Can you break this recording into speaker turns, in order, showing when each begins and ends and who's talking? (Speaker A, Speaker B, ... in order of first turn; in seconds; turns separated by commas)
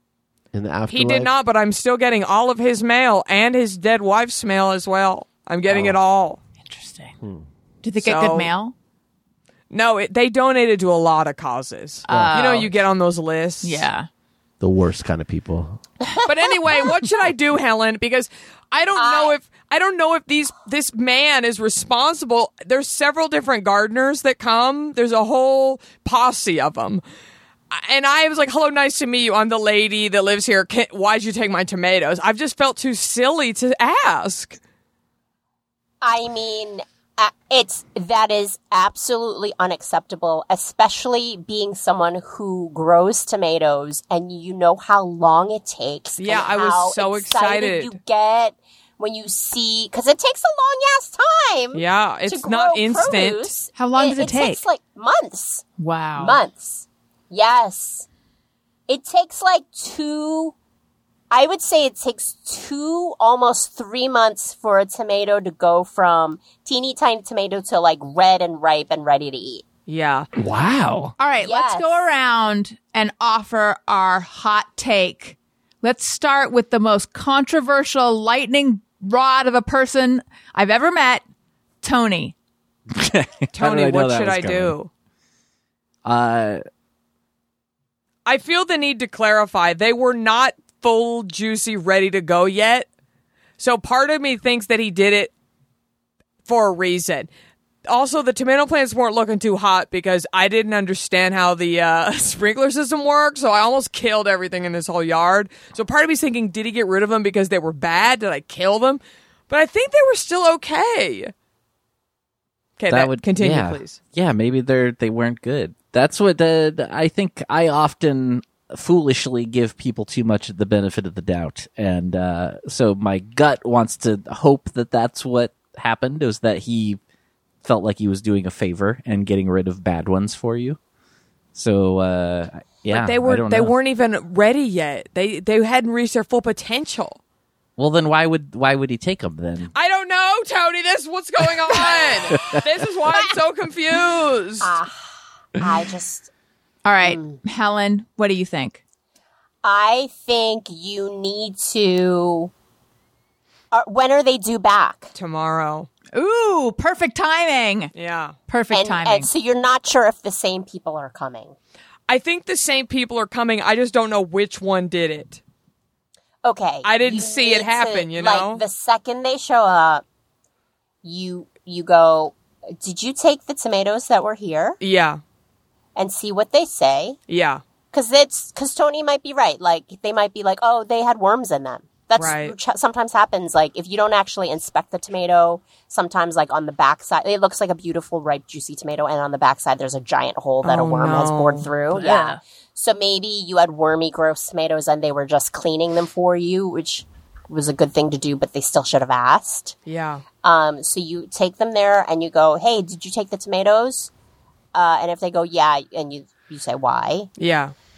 Speaker A: 0.5-1.3, Speaker B: 0.9-6.4, Speaker A: 5.7-6.0, Speaker C: 6.7-7.1, Speaker A: 7.2-7.5, Speaker C: 7.8-8.7, Speaker B: 8.0-8.5, Speaker B: 9.7-13.9, Speaker C: 12.1-12.7, Speaker A: 12.1-12.4, Speaker C: 13.6-14.1, Speaker A: 14.6-15.8, Speaker B: 16.3-27.0, Speaker D: 19.0-19.4, Speaker B: 27.7-34.6, Speaker D: 36.0-58.1, Speaker B: 46.2-47.9, Speaker B: 51.7-53.5, Speaker C: 53.8-54.6, Speaker C: 55.8-56.4, Speaker D: 58.9-60.5, Speaker D: 61.3-69.7, Speaker B: 69.9-70.3, Speaker E: 70.4-71.1, Speaker C: 71.2-81.2, Speaker D: 71.4-72.0, Speaker C: 81.8-82.3, Speaker E: 82.9-84.8, Speaker B: 83.5-84.9, Speaker E: 86.0-86.6, Speaker B: 88.3-92.9, Speaker B: 93.6-95.3, Speaker B: 96.5-97.3, Speaker B: 97.9-111.3, Speaker B: 112.8-114.0, Speaker E: 112.9-127.0, Speaker E: 127.6-130.8, Speaker E: 131.6-133.8, Speaker B: 132.9-137.2, Speaker E: 137.8-139.7, Speaker B: 139.7-144.7, Speaker D: 144.6-146.3, Speaker C: 146.8-148.8, Speaker D: 147.0-147.4, Speaker D: 149.6-152.5, Speaker D: 153.7-155.1, Speaker B: 155.2-155.9, Speaker C: 156.1-157.9, Speaker B: 157.9-158.4, Speaker C: 158.5-159.3, Speaker D: 158.7-161.6, Speaker B: 162.1-165.4, Speaker D: 166.4-170.0, Speaker B: 166.8-168.6, Speaker D: 171.0-174.8, Speaker B: 174.8-175.2, Speaker D: 176.0-177.2, Speaker B: 177.3-177.6, Speaker D: 177.9-199.8, Speaker B: 182.2-182.6, Speaker B: 190.6-191.7, Speaker C: 191.9-192.4, Speaker B: 199.9-200.2, Speaker D: 200.4-204.1, Speaker D: 204.7-207.3, Speaker B: 207.4-207.7